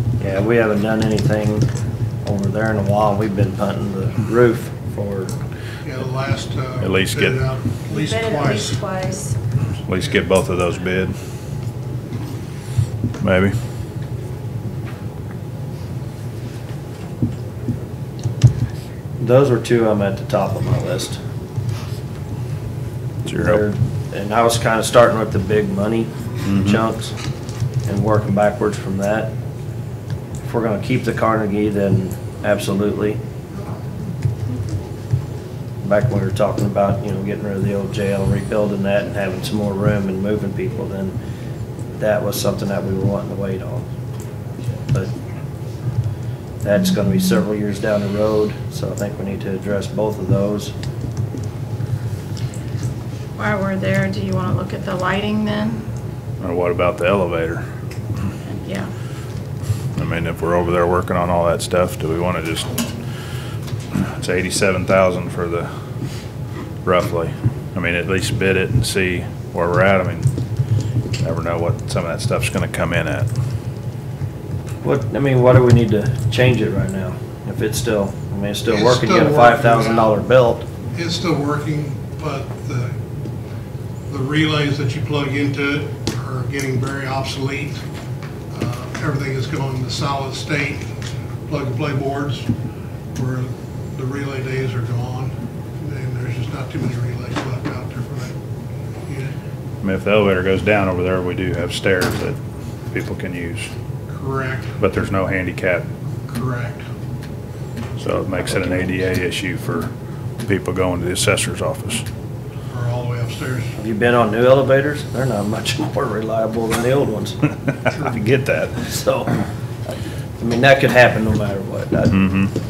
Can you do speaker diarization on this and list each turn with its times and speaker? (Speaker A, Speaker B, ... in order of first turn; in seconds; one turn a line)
Speaker A: 0.2-1.7
Speaker A: 2.2-5.3
Speaker B: 5.8-8.8
Speaker C: 6.8-7.5
Speaker D: 7.9-9.4
Speaker C: 9.8-11.1
Speaker C: 13.2-13.6
Speaker A: 19.2-21.2
Speaker C: 23.2-23.6
Speaker A: 23.3-27.1
Speaker C: 26.4-26.8
Speaker A: 27.9-29.3
Speaker A: 30.4-33.2
Speaker A: 35.8-41.1
Speaker A: 42.0-43.8
Speaker A: 46.6-50.7
Speaker D: 53.4-55.8
Speaker C: 56.4-57.6
Speaker D: 58.4-58.9
Speaker C: 60.0-62.9
Speaker C: 63.9-65.7
Speaker C: 66.8-70.3
Speaker C: 71.2-73.3
Speaker A: 74.8-80.7
Speaker B: 78.7-80.1
Speaker B: 80.9-82.9
Speaker B: 84.1-87.8
Speaker B: 88.5-90.8
Speaker B: 91.5-92.5
Speaker B: 93.2-98.3
Speaker B: 99.1-99.3
Speaker C: 99.8-102.4
Speaker C: 102.9-103.7
Speaker B: 104.1-104.7
Speaker C: 104.8-105.9
Speaker B: 106.3-106.8
Speaker C: 108.0-109.9
Speaker C: 110.4-112.0
Speaker B: 112.7-113.7
Speaker A: 113.8-117.4
Speaker C: 117.8-118.9
Speaker A: 118.8-119.3
Speaker A: 120.4-122.2
Speaker C: 122.1-122.5